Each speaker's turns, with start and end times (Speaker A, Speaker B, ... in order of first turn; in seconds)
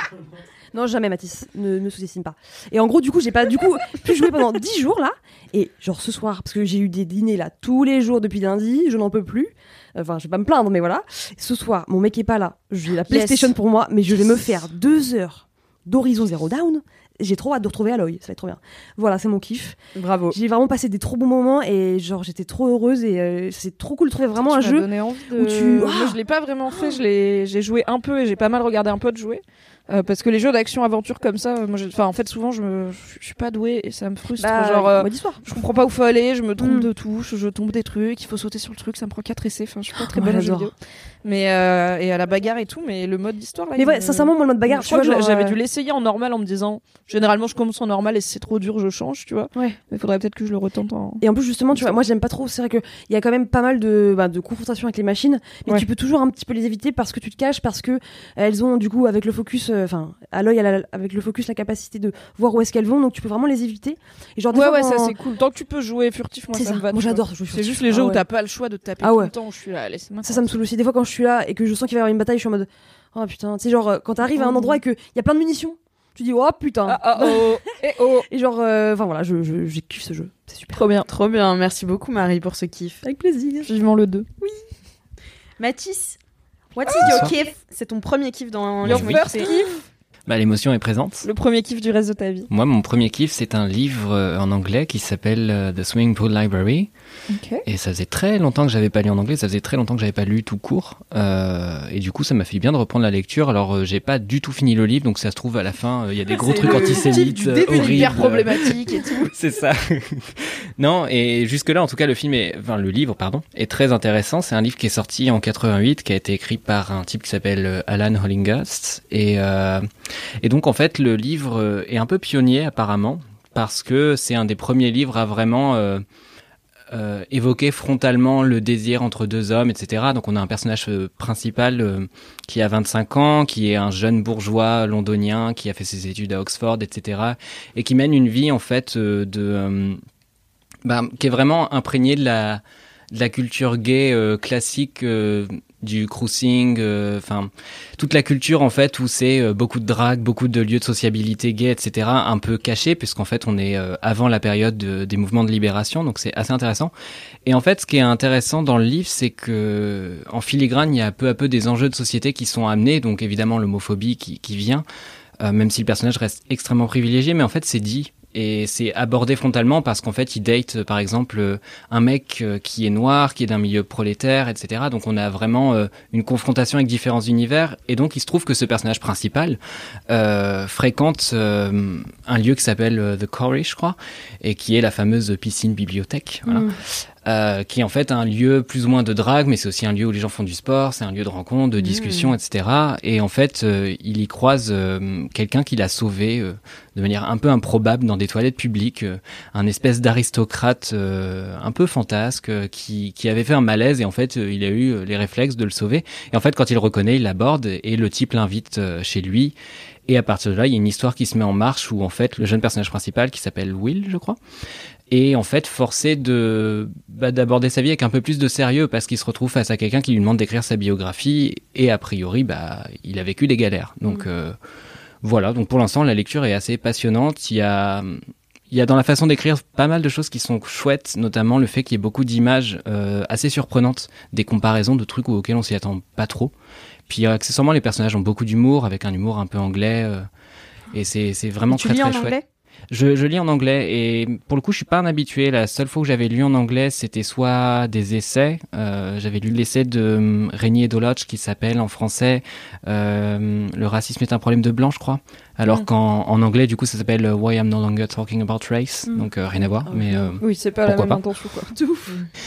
Speaker A: 0.7-19.8, 20.3-26.2, 34.4-35.4, 36.6-36.9, 40.0-40.7, 43.8-45.6, 51.2-65.2, 66.5-68.2, 69.0-69.3, 70.2-77.6, 78.3-80.8, 83.0-83.7, 86.9-87.2, 186.5-186.7, 259.9-260.4, 261.8-262.2
Speaker B: 13.1-13.5, 19.9-20.4, 81.0-83.0, 85.6-86.2, 86.8-89.5, 106.5-107.1, 191.8-192.3, 241.7-242.4
Speaker C: 24.4-52.0, 64.5-70.5, 74.3-74.8, 76.8-78.3, 80.7-81.1, 83.6-84.3, 88.8-89.8, 91.2-92.5, 97.3-97.6, 106.3-109.3, 260.4-261.7
Speaker D: 87.0-87.3, 88.8-89.2, 90.3-91.3, 92.5-96.9, 97.7-108.8, 109.3-119.9, 120.4-126.0, 126.9-140.0, 140.8-156.9, 157.5-164.8, 165.4-209.6, 210.1-214.4, 215.1-224.6, 225.2-236.5, 237.1-240.3, 240.9-242.4, 242.9-261.2